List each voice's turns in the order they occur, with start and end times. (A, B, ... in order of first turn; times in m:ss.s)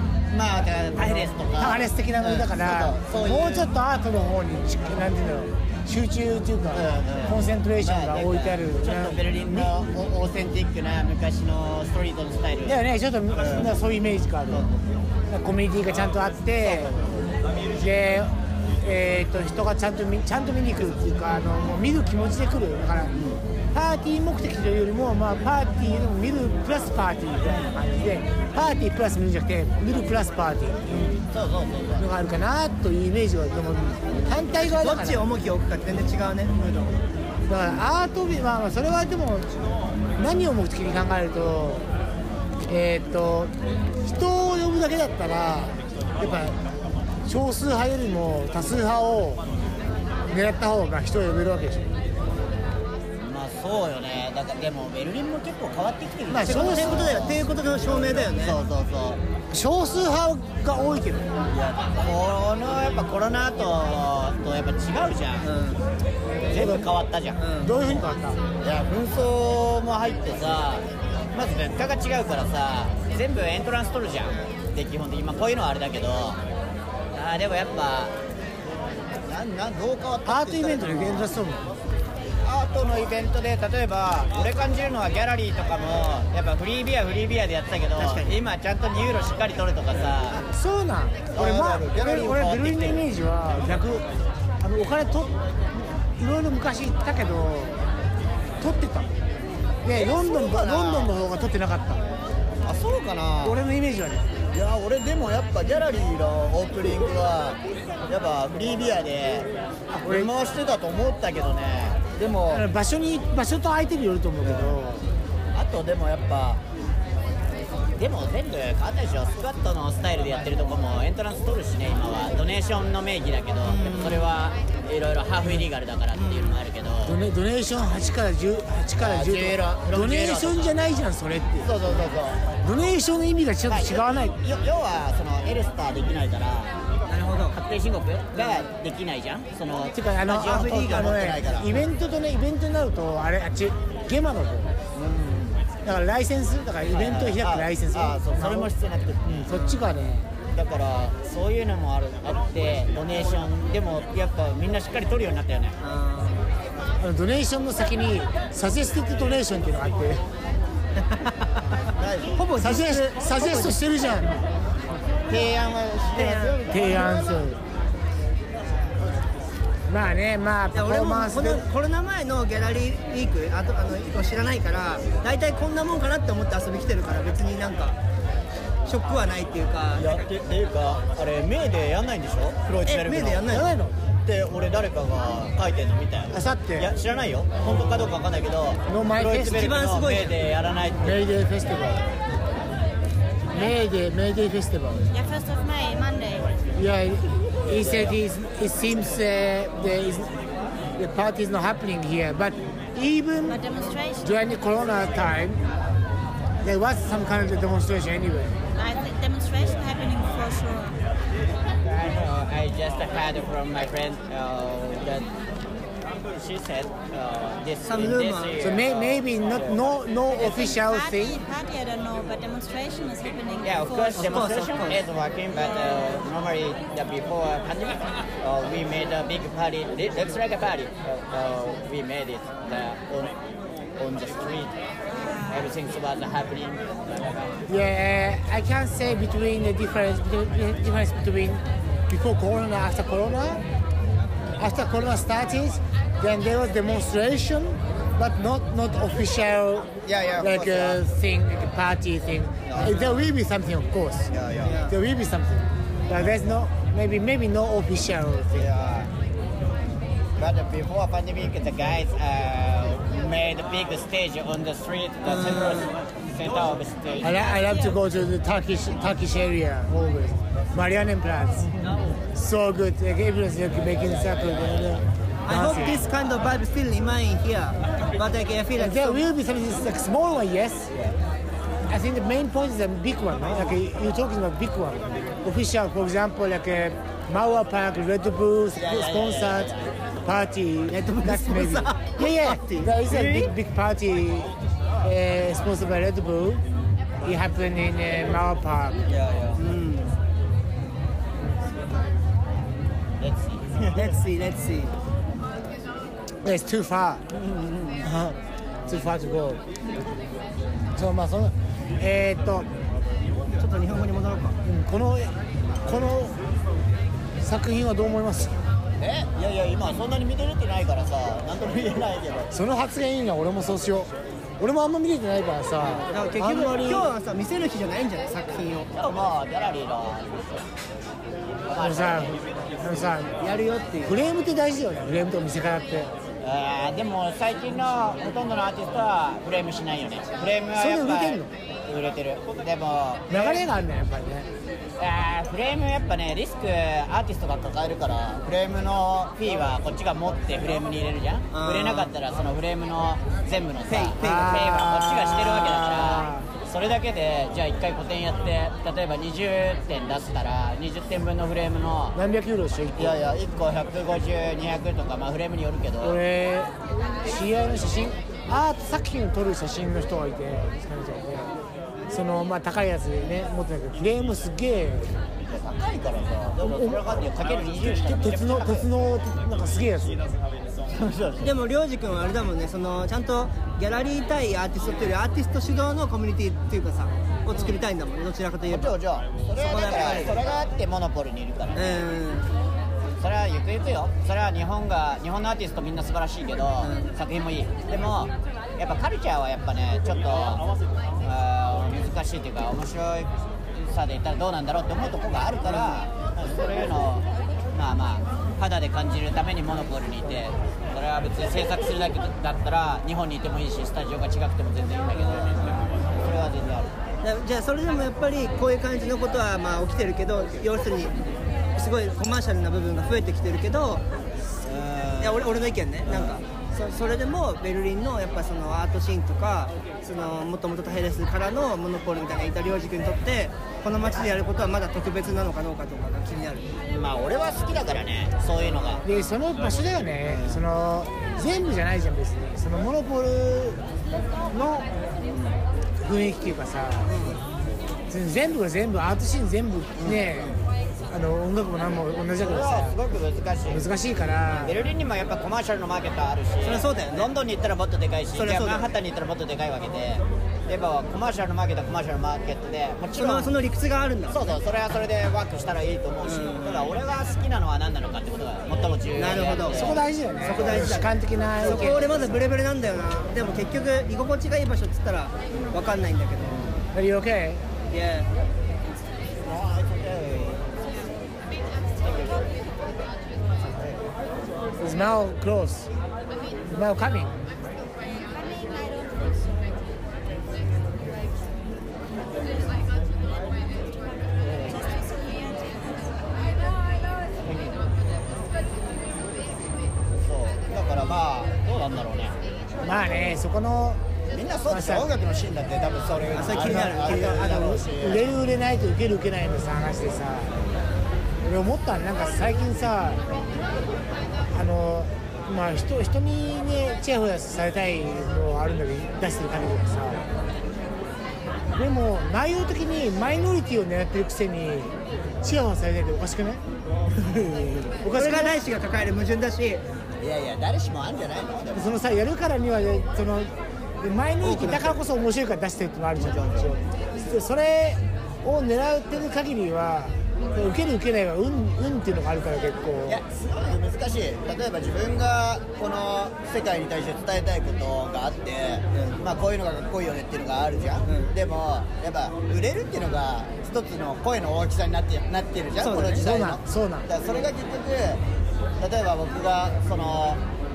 0:00.3-0:03.7 A
0:01.0-0:09.7 B
0:06.7-0:12.8 A
0:12.7-0:14.7 B
0:13.4-0:13.7 A
0:14.5-0:14.9 A
0:15.3-0:17.0 B
0:16.6-0:17.3 A
0:17.7-0:23.2 B
0:23.1-0:23.4 A
0:23.7-0:30.9 B
0:30.9-0:32.1 A
0:32.0-0:35.2 B
0:34.3-0:37.0 C
0:37.5-0:39.5 B
0:40.2-0:41.9 B
0:42.7-0:46.6 B
0:47.2-0:49.4 B
0:50.3-0:52.0 B
0:53.2-0:59.2 A
0:56.3-0:57.2 B
0:56.4-0:58.6 C
0:59.5-1:01.3 B
1:01.5-1:05.5 A
1:05.4-1:05.8 C
1:06.4-1:08.0 A
1:06.5-1:06.9 B
1:07.4-1:07.7 C
1:07.6-1:08.4 B
1:08.6-1:16.4 A
1:17.2-1:18.1 A
1:19.3-1:21.3 A
1:20.2-1:21.7 B
1:22.4-1:30.4 A
1:28.0-1:28.3 C
1:30.5-1:34.1 B
1:31.3-1:33.0 A
1:34.6-1:37.8 B
1:38.6-1:39.1 B
1:39.8-1:42.0 B
1:39.9-1:41.1 A
1:42.6-1:43.6 A
1:43.4-1:44.3 B
1:44.5-1:49.5 A
1:49.9-1:50.3 B
1:50.0-1:52.6 A
1:52.5-1:55.0 B
1:54.4-1:54.8 A
1:55.6-1:56.6 A
1:58.0-2:07.2 A
2:03.6-2:04.3 C
2:06.1-2:06.6 C
2:07.1-2:11.7 B
2:09.0-2:10.7 A
2:11.6-2:12.4 A
2:12.6-2:14.4 B
2:13.7-2:16.8 A
2:17.1-2:17.6 C
2:17.5-2:21.8 A
2:18.3-2:18.7 C
2:19.9-2:24.7 B
2:20.4-2:21.2 C
2:24.9-2:25.6 A
2:25.8-2:28.7 B
2:26.9-2:29.5 A
2:29.3-2:30.3 B
2:29.5-2:29.8 C
2:30.6-2:35.8 A
2:35.8-2:36.4 C
2:37.0-2:40.2 B
2:41.0-2:41.5 C
2:42.0-2:42.5 A
2:42.4-2:43.8 C
2:42.6-2:44.4 B
2:45.3-2:47.4 A
2:46.1-2:46.6 C
2:46.7-2:47.6 B
2:49.9-2:51.6 B
2:50.7-2:58.0 C
2:58.8-3:00.3 C
3:00.0-3:03.6 A
3:02.8-3:03.7 C
3:03.5-3:04.0 B
3:04.3-3:11.3 A
3:06.3-3:06.9 B
3:08.9-3:09.7 B
3:09.5-3:10.4 C
3:11.0-3:12.0 B
3:13.5-3:15.1 B
3:15.1-3:16.5 D
3:16.8-3:20.3 B
3:17.7-3:18.2 A
3:21.0-3:23.6 B
3:23.5-3:24.3 D
3:24.2-3:25.6 B
3:26.6-3:28.6 B
3:28.7-3:31.0 D
3:31.8-3:35.3 A
3:36.3-3:39.8 A
3:37.8-3:38.6 C
3:38.6-3:41.4 B
3:40.4-3:44.4 D
3:43.6-3:53.3 A
3:44.2-3:45.0 C
3:54.0-3:54.7 A
3:55.1-3:55.7 D
3:55.5-3:57.6 A
3:57.7-4:03.6 B
4:04.6-4:18.7 B
4:10.0-4:11.0 A
4:12.7-4:13.2 A
4:14.3-4:14.8 A
4:14.6-4:14.9 C
4:18.6-4:19.1 A
4:20.4-4:27.4 A
4:25.3-4:25.9 C
4:27.2-4:31.7 B
4:27.5-4:28.0 D
4:32.3-4:36.0 B
4:34.0-4:35.1 A
4:35.5-4:39.3 C
4:38.8-4:40.9 B
4:41.9-4:49.7 B
4:48.8-4:49.9 A
4:50.2-4:56.6 B
4:50.9-4:53.5 C
4:53.1-4:53.4 A
4:57.2-4:59.0 B
4:59.1-4:59.6 A
4:59.6-5:00.1 C
5:03.2-5:04.1 A
5:03.9-5:04.9 C
5:06.4-5:07.2 B
5:07.3-5:08.1 A
5:08.0-5:09.6 B
5:10.9-5:12.7 B
5:13.6-5:14.6 C
5:14.6-5:16.4 B
5:17.4-5:18.6 B
5:19.0-5:22.5 A
5:22.5-5:27.1 B
5:26.1-5:28.9 C
5:29.0-5:30.6 A
5:31.7-5:32.5 A
5:31.7-5:33.4 B
5:33.4-5:34.2 C
5:34.0-5:36.1 B
5:36.4-5:43.6 A
5:40.7-5:41.5 B
5:43.3-5:44.5 B
5:45.0-6:02.2 A
5:51.5-5:52.1 C
5:53.9-5:54.6 C
5:54.2-5:56.5 B
6:02.1-6:03.2 B
6:03.0-6:06.2 A
6:06.0-6:11.5 B
6:12.1-6:15.2 B
6:15.5-6:18.9 A
6:16.6-6:20.2 B
6:20.7-6:21.5 A
6:21.4-6:29.0 C
6:28.7-6:32.0 A
6:29.6-6:30.4 C
6:31.8-6:32.5 C
6:33.2-6:40.7 A
6:36.8-6:37.1 C
6:41.2-6:43.3 A
6:43.9-6:56.9 A
6:45.7-6:46.0 C
6:55.4-6:55.8 C
6:57.2-7:01.2 C
7:01.8-7:04.0 C
7:04.6-7:06.4 A
7:05.2-7:16.7 C
7:16.9-7:19.1 A
7:19.0-7:23.8 B
7:20.3-7:20.6 A
7:24.5-7:24.9 B
7:25.2-7:25.6 A
7:26.0-7:27.2 B
7:27.1-7:27.4 C
7:28.1-7:30.6 B
7:30.0-7:30.6 A
7:31.1-7:33.0 B
7:32.4-7:33.9 A
7:33.7-7:34.8 B
7:34.6-7:43.6 A
7:36.6-7:37.3 C
7:38.3-7:38.9 C
7:43.2-7:44.6 C
7:44.3-7:50.9 A
7:46.3-7:46.9 C
7:49.2-7:56.8 C
7:49.7-7:52.1 B
7:51.6-7:52.4 A
7:56.9-7:57.6 B
7:57.9-7:58.3 C
7:59.4-8:00.8 A
8:02.0-8:02.6 A
8:03.6-8:04.1 A
8:04.8-8:05.9 B
8:06.7-8:07.4 B
8:08.4-8:09.5 D
8:14.4-8:14.9 A
8:14.9-8:16.3 D
8:17.4-8:17.8 A
8:20.1-8:22.4 A
8:22.8-8:24.0 B
8:24.3-8:28.3 A
8:24.7-8:25.1 B
8:26.3-8:27.5 C
8:26.5-8:30.6 B
8:31.4-8:33.2 B
8:34.5-8:40.2 B
8:41.7-8:46.6 B
8:48.0-8:48.6 B
8:48.1-8:49.8 C
8:50.2-8:52.0 A
8:51.7-9:03.2 B
8:54.4-8:54.9 C
8:56.2-8:56.8 A
9:03.1-9:18.2 A
9:08.9-9:09.2 C
9:11.1-9:11.3 C
9:15.8-9:16.2 C
9:16.2-9:17.1 B
9:18.8-9:20.4 A